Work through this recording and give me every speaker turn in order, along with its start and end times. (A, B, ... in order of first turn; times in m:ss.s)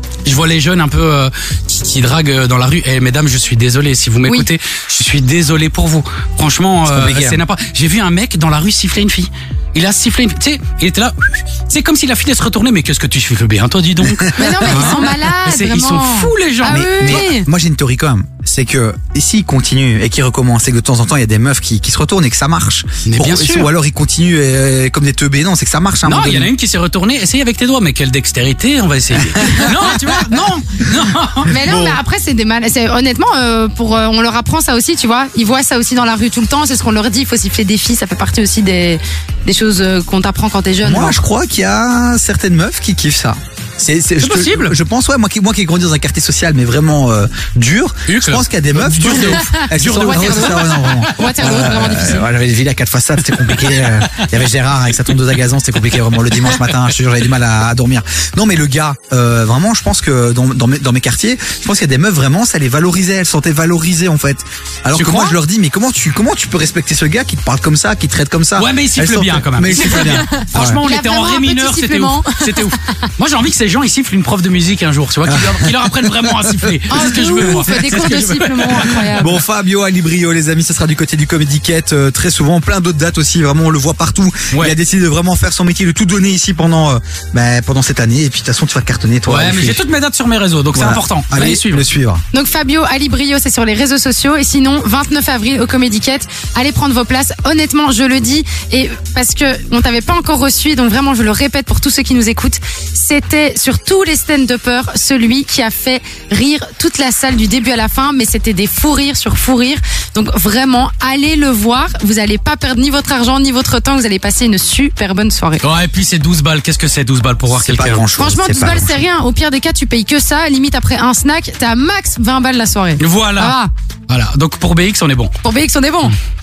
0:00.2-0:17.2 A
0:06.8-0:07.4 B
0:14.2-0:15.0 B
0:14.4-0:17.5 C
0:16.6-0:26.5 B
0:23.0-0:23.7 A
0:26.0-0:31.6 A
0:29.5-0:29.7 B
0:31.5-0:41.2 C
0:31.6-0:32.0 B
0:40.8-1:10.8 B
0:44.2-0:44.7 A
0:48.0-0:51.8 A
0:49.2-0:52.3 C
0:53.3-0:54.0 A
0:56.1-0:56.7 A
1:04.9-1:05.4 A
1:08.6-1:19.0 A
1:09.8-1:12.9 C
1:15.2-1:29.8 B
1:16.9-1:19.4 C
1:29.2-1:31.8 A
1:30.7-1:32.2 B
1:32.3-1:55.6 C
1:55.6-1:58.1 A
1:57.5-1:59.0 B
1:58.2-2:03.7 C
2:03.0-2:03.6 A
2:04.1-2:05.3 A
2:05.4-2:06.1 C